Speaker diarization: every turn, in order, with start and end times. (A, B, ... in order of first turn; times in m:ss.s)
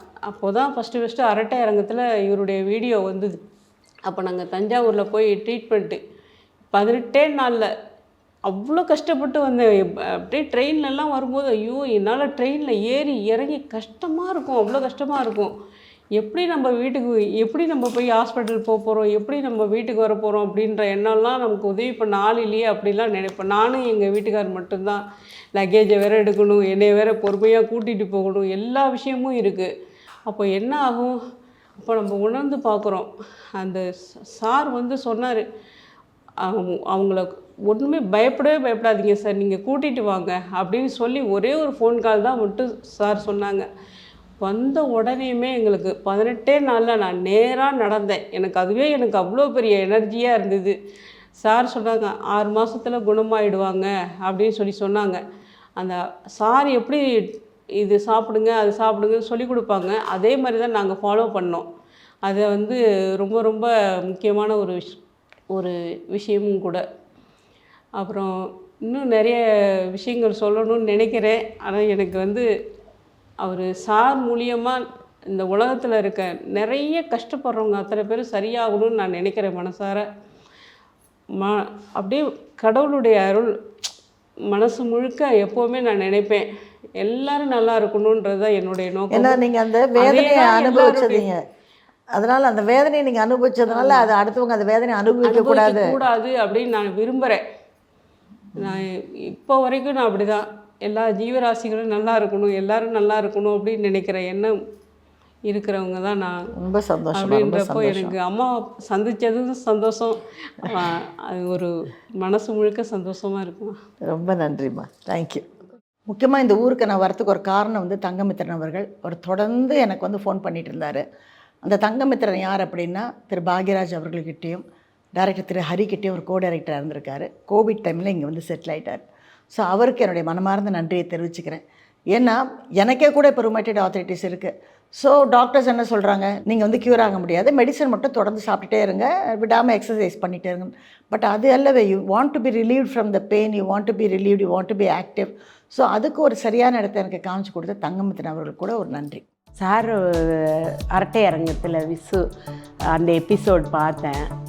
0:00.3-0:03.4 A
0:04.0-0:06.0 A
0:06.7-0:07.7 A
0:08.5-0:15.5 A
0:16.1-0:25.0 A
0:25.6-0:29.7 A
0:30.3-0:31.2 A
0:31.8-0:35.4 A
0:36.4-0:43.7 A
0:44.4-0:50.8 A
0:51.4-0:55.2 A
0:55.8-1:01.6 A
1:02.2-1:05.0 A
1:05.5-1:06.8 A
1:08.0-1:12.4 A
1:13.4-1:20.1 A
1:21.4-1:23.5 A
1:24.5-1:26.5 A
1:27.0-1:29.4 A
1:29.1-1:31.4 B
1:30.0-1:31.2 A
1:32.1-1:35.9 B
1:33.7-1:34.1 A
1:35.2-1:37.4 A
1:38.6-1:44.5 A
1:45.5-1:46.4 A
1:46.5-1:48.1 B
1:47.1-1:53.8 A
1:54.0-1:55.4 B
1:56.1-2:01.0 B
2:01.6-2:04.6 B
2:05.2-2:29.2 B
2:29.6-2:32.2 C
2:32.9-2:34.3 C